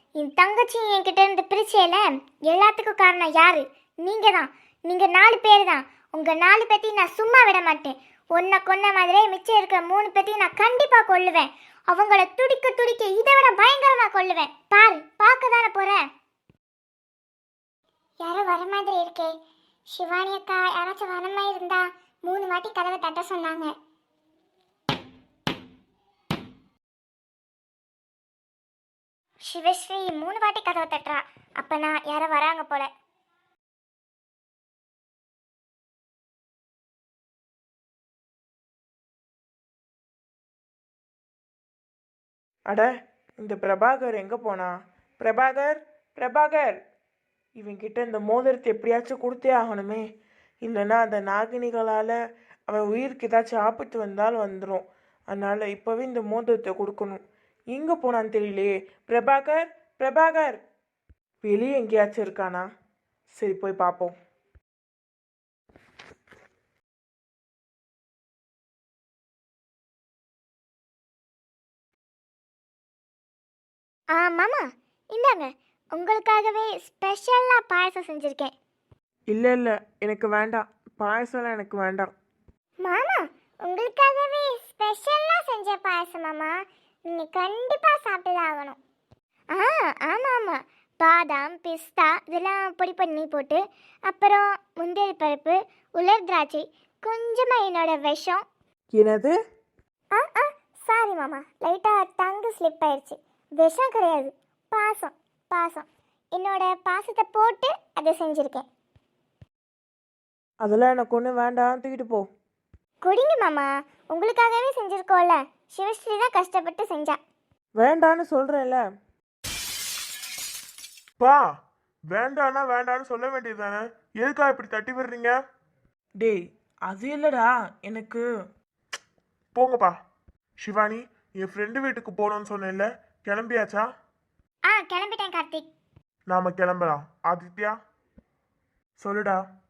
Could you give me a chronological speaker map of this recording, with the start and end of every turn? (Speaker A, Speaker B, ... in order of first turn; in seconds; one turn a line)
Speaker A: 0.2-16.0
Speaker A: 18.2-19.3
Speaker A: 19.9-23.7
Speaker A: 29.4-32.9
Speaker B: 43.4-46.8
Speaker B: 47.6-50.0
Speaker B: 50.6-52.1
Speaker B: 52.7-60.6
Speaker B: 61.4-62.6
Speaker B: 63.4-64.1
Speaker A: 74.1-78.5
Speaker B: 79.3-82.1
Speaker A: 82.8-88.8
Speaker A: 89.5-98.4
Speaker B: 98.9-99.4
Speaker A: 100.1-108.7
Speaker B: 110.6-112.2
Speaker A: 113.0-117.2
Speaker B: 117.8-118.8
Speaker C: 122.1-125.3
Speaker B: 126.2-128.2
Speaker C: 129.5-129.9
Speaker C: 130.6-133.8
Speaker A: 134.7-135.7
Speaker C: 136.3-137.7
Speaker C: 139.0-139.4